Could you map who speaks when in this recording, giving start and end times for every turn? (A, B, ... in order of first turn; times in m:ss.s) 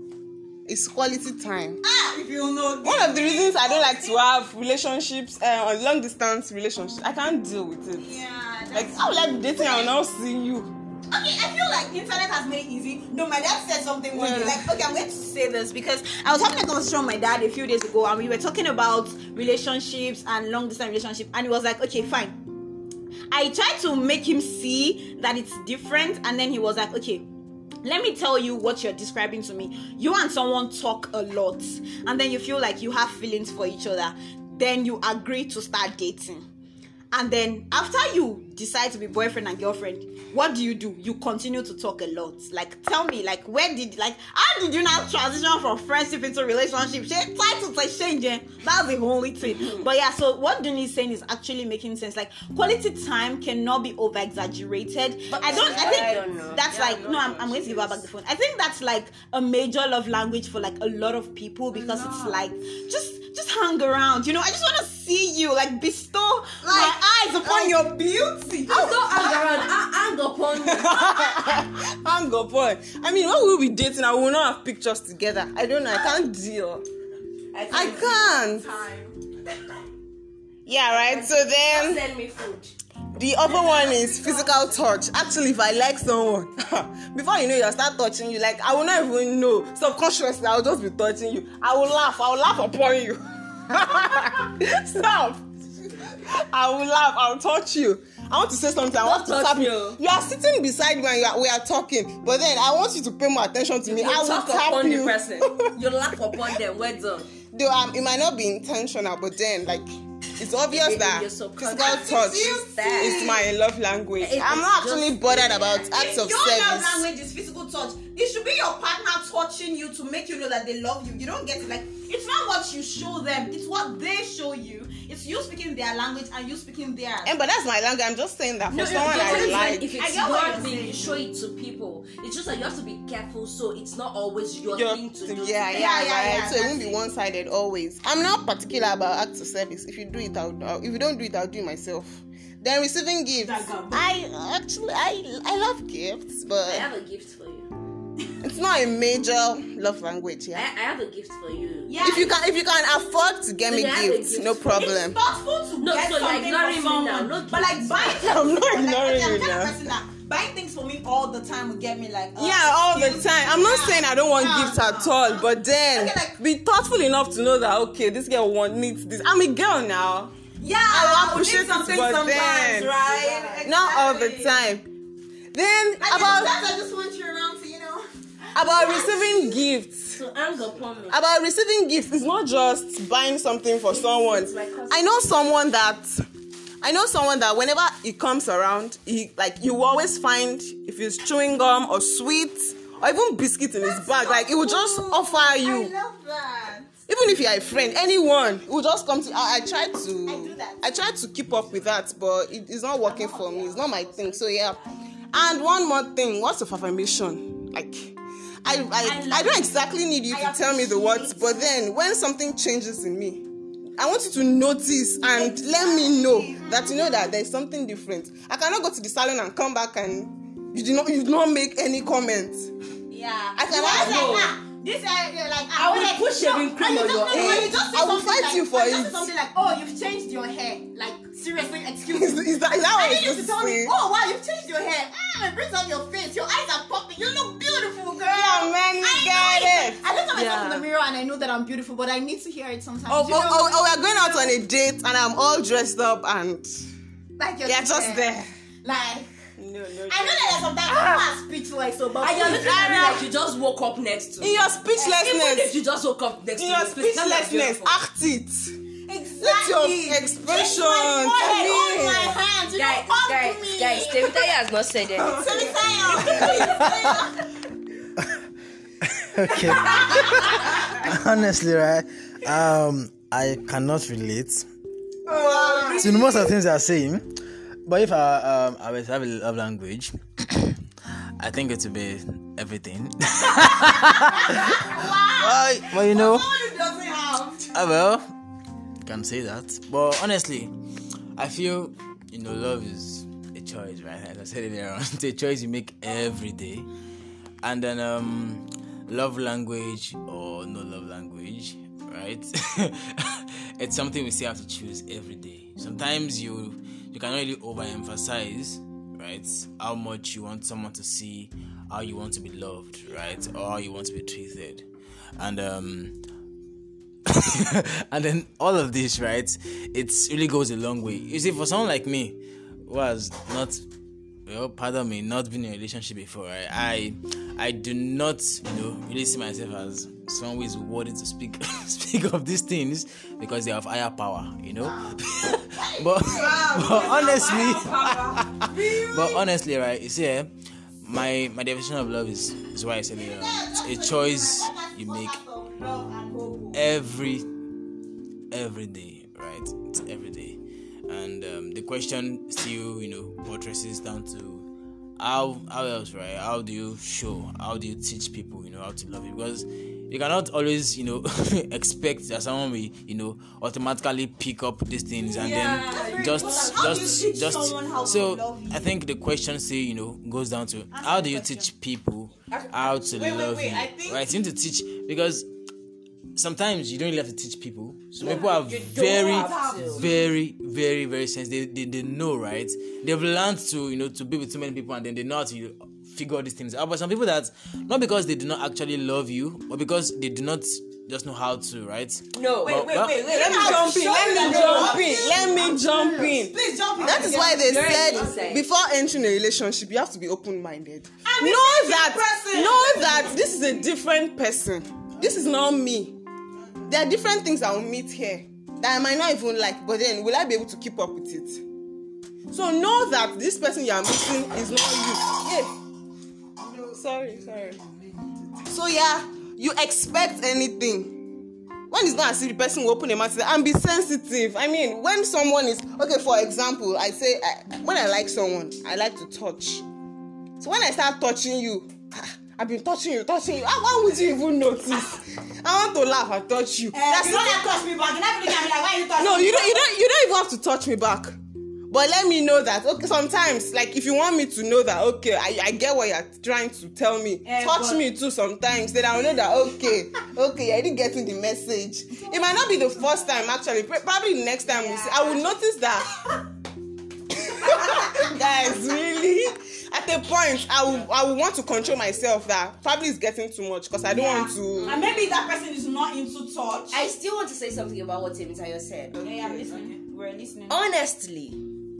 0:00.6-0:01.8 A
0:01.8-0:04.2 B
0:02.8-0:08.2 A
0:08.0-0:10.0 B
0:08.7-0:10.7 A
0:11.1-0:22.4 B
0:14.1-0:14.7 A
0:23.3-0:27.3 B
0:27.8-0:36.4 B
0:37.1-1:09.4 B
0:55.3-0:58.0 C
0:55.4-0:56.9 A
1:01.7-1:02.4 C
1:06.6-1:07.8 A
1:08.7-1:11.1 C
1:10.6-1:16.8 A
1:11.0-1:11.6 B
1:17.5-1:18.4 C
1:17.7-1:18.6 A
1:17.8-1:19.2 B
1:20.6-1:22.0 A
1:20.9-1:22.7 C
1:23.1-1:35.4 A
1:23.4-1:24.8 B
1:35.9-1:45.7 A
1:39.0-1:40.0 C
1:43.8-1:47.3 C
1:47.5-1:57.0 A
1:50.7-1:53.4 C
1:51.7-1:53.4 B
1:54.2-1:55.9 C
1:55.9-2:07.4 B
2:07.2-2:09.9 A
2:08.7-2:16.0 C
2:08.9-2:11.2 B
2:14.7-2:26.9 A
2:15.7-2:17.0 B
2:23.4-2:24.1 B
2:26.7-2:27.7 C
2:28.4-2:30.6 A
2:30.5-2:32.0 C
2:31.9-2:32.4 B
2:32.0-2:35.2 A
2:33.7-2:34.9 C
2:34.7-2:46.4 B
2:35.8-2:38.3 C
2:38.0-2:39.8 A
2:42.4-2:50.3 A
2:50.6-2:54.6 B
2:50.9-2:54.9 A
2:55.5-2:56.6 A
2:56.0-2:59.6 B
2:58.5-3:00.2 A
3:00.1-3:01.2 C
3:01.1-3:06.2 A
3:03.9-3:05.4 C
3:06.8-3:15.9 A
3:13.8-3:16.9 B
3:17.1-3:24.8 A
3:20.3-3:21.0 B
3:23.0-3:25.0 B
3:25.3-3:33.4 A
3:29.0-3:31.8 B
3:34.0-3:42.7 A
3:35.3-3:37.3 B
3:43.1-4:04.5 B
3:43.6-3:44.3 A
3:43.7-3:44.6 C
3:45.7-3:47.7 C
3:47.3-3:49.3 A
3:52.1-3:53.9 A
3:58.2-4:00.0 A
4:00.3-4:00.8 C
4:03.1-4:06.8 A
4:07.4-4:09.3 B
4:07.6-4:08.5 A
4:09.6-4:10.5 A
4:10.1-4:13.2 B
4:10.9-4:11.2 C
4:12.2-4:18.0 C
4:12.6-4:13.2 A
4:14.4-4:15.7 A
4:15.0-4:15.2 B
4:16.6-4:18.7 A
4:19.1-4:24.4 B
4:19.4-4:23.1 A
4:22.7-4:25.5 C
4:25.2-4:27.2 A
4:25.2-4:27.3 B
4:26.5-4:27.2 D
4:29.1-4:34.7 D
4:29.5-4:30.8 B
4:35.3-4:36.4 B
4:35.3-4:36.1 A
4:35.6-4:36.2 C
4:35.9-4:40.8 D
4:41.4-4:46.5 D
4:43.8-4:47.7 B
4:47.7-4:48.3 D
4:49.0-4:50.7 D
4:51.4-4:56.9 D
4:57.6-5:14.8 D
5:15.4-5:16.2 D
5:17.2-5:23.8 D
5:24.4-5:45.4 D
5:34.8-5:39.4 B
5:43.1-5:46.8 B
5:46.7-5:47.5 D
5:48.5-6:15.5 D
6:05.3-6:08.9 B
6:05.3-6:07.0 C
6:10.9-6:11.7 B
6:12.5-6:13.1 C
6:13.2-6:14.1 B
6:13.2-6:14.2 A
6:16.3-6:33.3 D
6:18.2-6:20.0 C
6:19.2-6:20.1 B
6:32.3-6:35.3 C
6:32.7-6:38.2 B
6:33.3-6:46.2 A
6:37.0-6:38.6 C
6:41.2-6:43.4 B
6:46.9-6:51.6 A
6:52.5-6:55.7 A
6:56.6-6:57.8 A
6:58.6-7:01.3 A
7:01.9-7:09.8 A
7:10.6-7:17.8 A
7:16.9-7:19.8 B
7:19.2-7:21.4 A
7:21.9-7:36.1 A
7:27.4-7:28.0 B
7:34.6-7:35.5 B
7:37.4-7:45.1 A
7:37.6-7:38.3 B
7:44.1-7:47.0 B
7:46.9-7:49.2 C
7:49.1-7:49.9 A
7:49.2-7:50.8 B
7:50.7-7:51.6 C